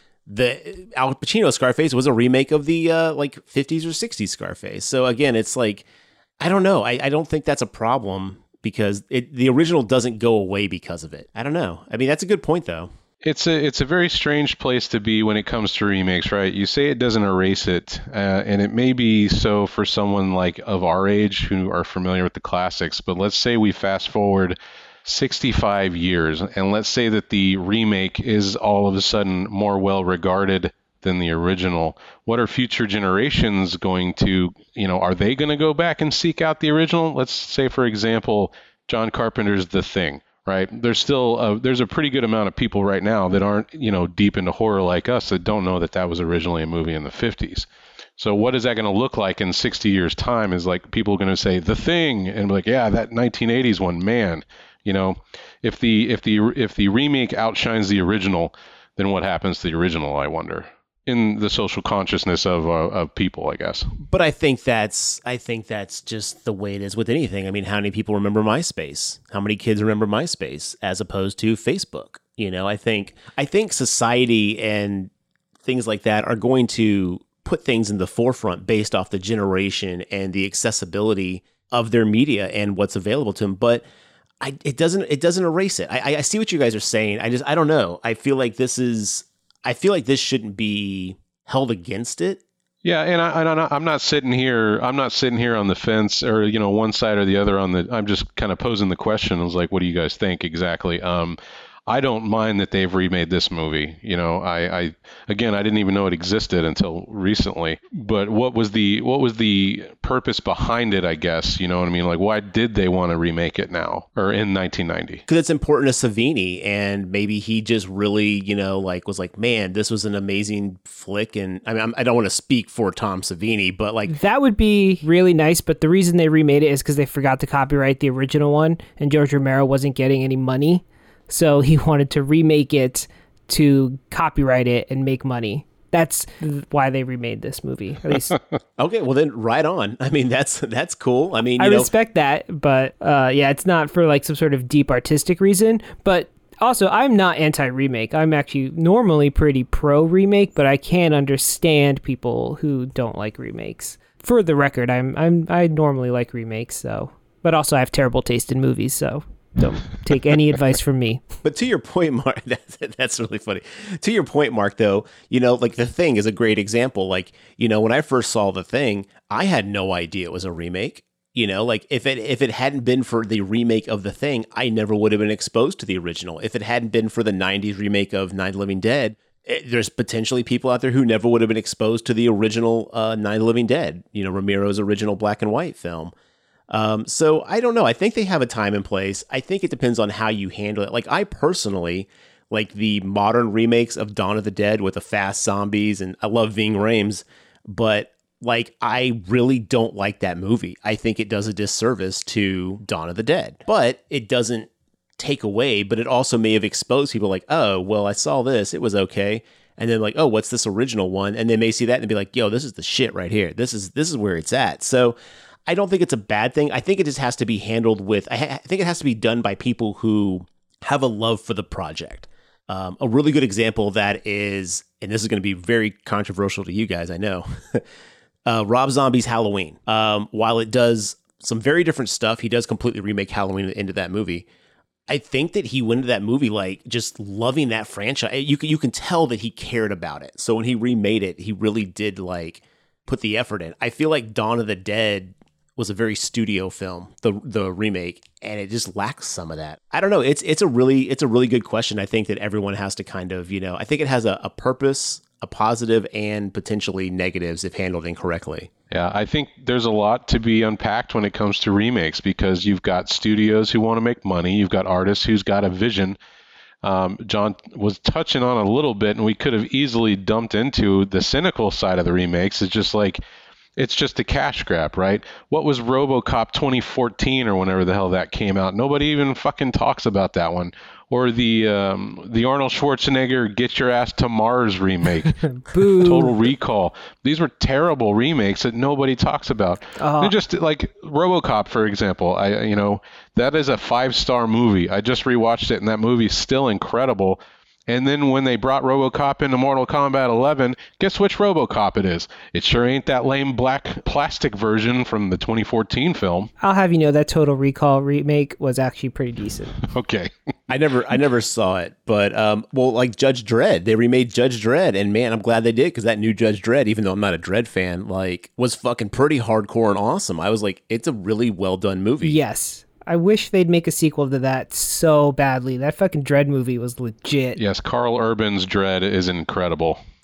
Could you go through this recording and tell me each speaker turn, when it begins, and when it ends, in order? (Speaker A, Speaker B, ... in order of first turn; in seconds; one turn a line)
Speaker A: 0.3-5.8
Speaker A: 6.4-12.9
Speaker B: 13.2-63.9
Speaker A: 64.0-75.1
Speaker A: 75.6-83.8
Speaker A: 84.4-92.4
Speaker B: 92.8-115.2
Speaker A: 115.3-124.1
Speaker C: 124.1-138.4
Speaker A: 138.8-141.9
Speaker C: 141.6-161.2
Speaker A: 161.4-186.1
Speaker A: 186.7-215.2
Speaker A: 215.7-227.8
Speaker A: 228.4-234.4
Speaker A: 235.1-258.7
Speaker B: 258.9-266.2
Speaker B: 266.8-273.2
Speaker B: 273.8-306.5
Speaker C: 285.6-286.3
Speaker C: 290.0-290.3
Speaker C: 306.6-309.8
Speaker B: 309.8-310.3
Speaker A: 310.7-322.4
Speaker C: 322.2-327.6
Speaker B: 327.6-330.0